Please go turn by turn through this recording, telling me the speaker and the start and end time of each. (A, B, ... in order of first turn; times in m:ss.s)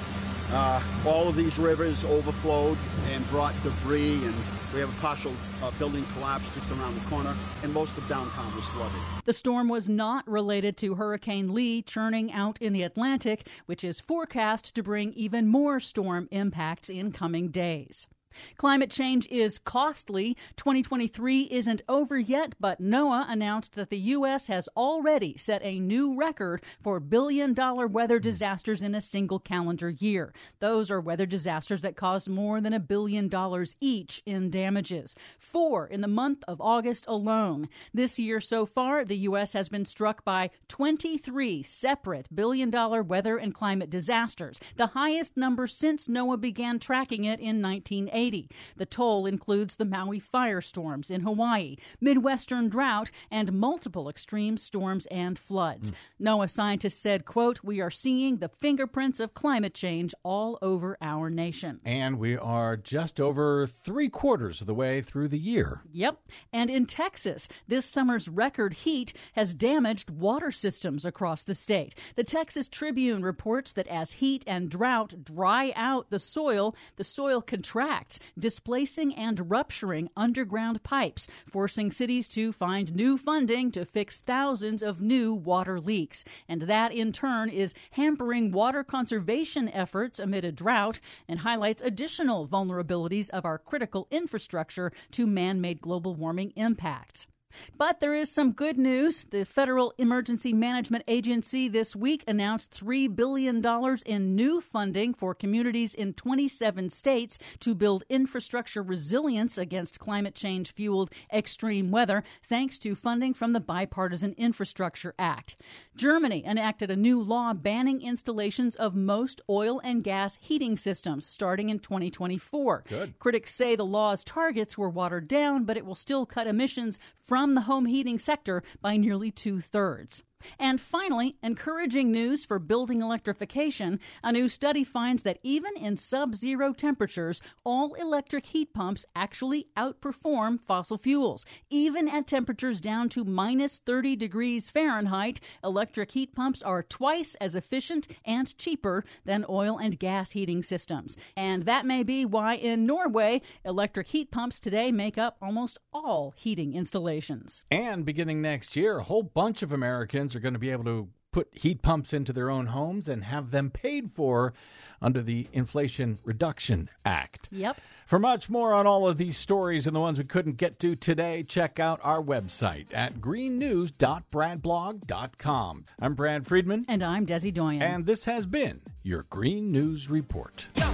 0:00.5-0:09.1 A
0:09.2-1:01.8 B
1:01.8-1:05.8 C
1:05.9-2:37.6 B
2:37.7-2:47.5 C
2:47.5-2:47.8 B
2:48.1-2:56.9 C
2:56.9-2:58.0 B
2:57.8-3:00.7 C